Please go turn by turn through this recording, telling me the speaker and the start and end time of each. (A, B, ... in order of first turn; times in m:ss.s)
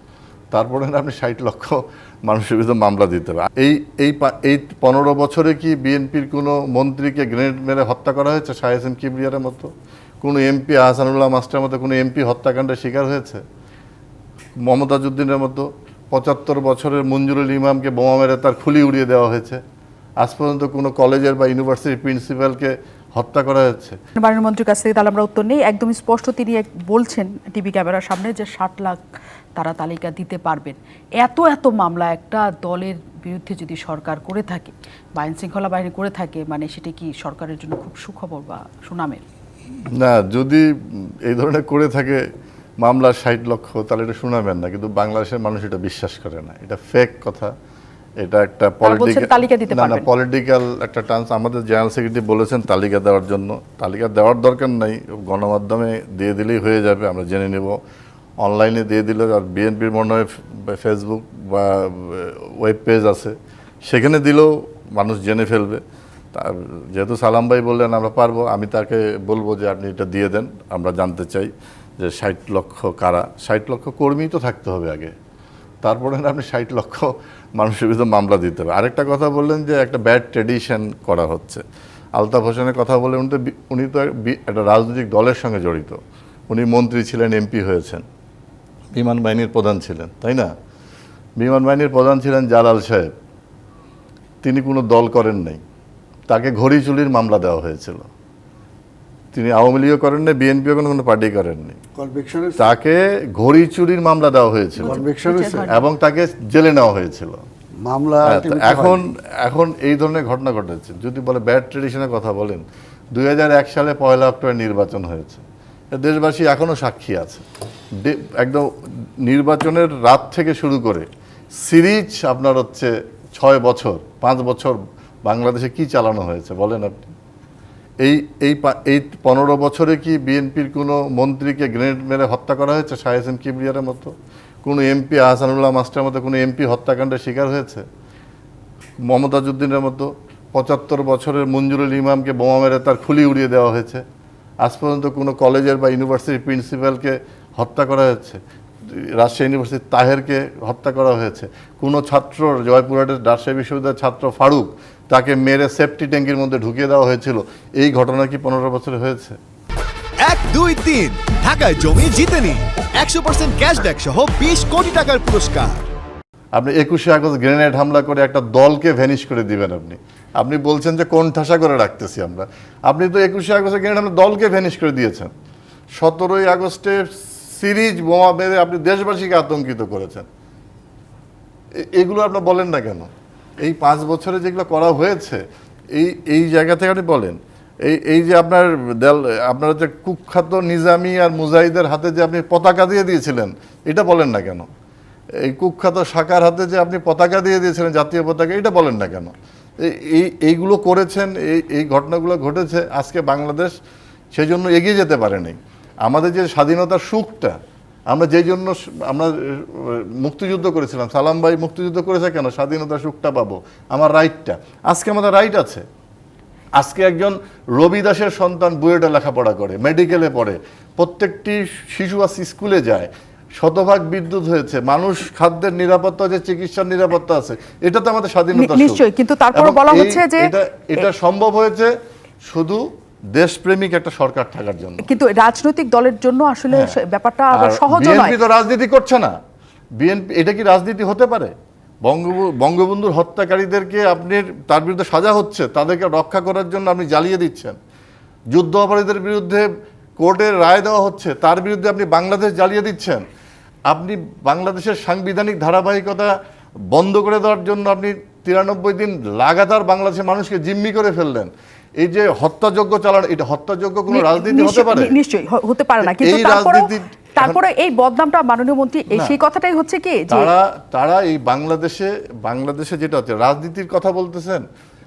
0:00.5-0:09.7 A
0:10.2-0:13.4 A
0:14.6-0:19.6 A
0:20.2-0:24.0 A
0:24.2-0:29.0 B
0:29.6-0:39.2 B
0:39.9-0:42.2 A
0:42.8-0:47.5 A
0:48.2-0:57.8 A
0:48.8-0:50.1 B
0:58.4-1:03.3 A
1:03.9-1:05.8 A
1:06.3-1:15.1 A
1:15.8-1:21.6 A
1:22.2-1:26.0 A
1:26.5-1:28.0 A
1:28.9-1:30.5 A
1:31.4-1:33.1 A
1:34.4-1:35.6 A
1:36.3-1:38.1 A
1:39.3-1:41.8 A
1:41.9-1:42.7 C
1:42.6-1:47.4 A
1:44.8-1:45.7 C
1:44.8-1:45.8 B
1:47.8-1:49.0 C
1:48.2-1:57.4 A
1:58.0-1:58.7 A
1:59.2-2:01.0 A
2:01.6-2:07.1 A
2:08.0-2:14.1 A
2:14.6-2:17.8 A
2:19.0-2:24.0 A
2:24.6-2:39.4 A
2:40.2-2:45.9 D
2:46.5-2:55.3 A
2:56.0-3:00.3 A
3:01.8-3:14.7 A
3:15.4-3:23.8 A
3:24.3-3:27.6 A
3:28.1-3:35.8 A
3:36.7-3:51.9 A
3:48.5-3:50.5 B
3:52.4-3:55.1 A
3:55.0-3:58.4 B
3:56.7-3:57.0 A
3:57.5-3:59.3 A
4:00.0-4:01.5 A
4:02.0-4:07.8 A
4:08.5-4:09.7 A
4:10.2-4:13.2 A
4:13.9-4:16.3 A
4:16.9-4:25.2 A
4:24.1-4:30.5 B
4:26.0-4:27.6 A
4:29.1-4:29.4 A
4:30.3-4:34.6 A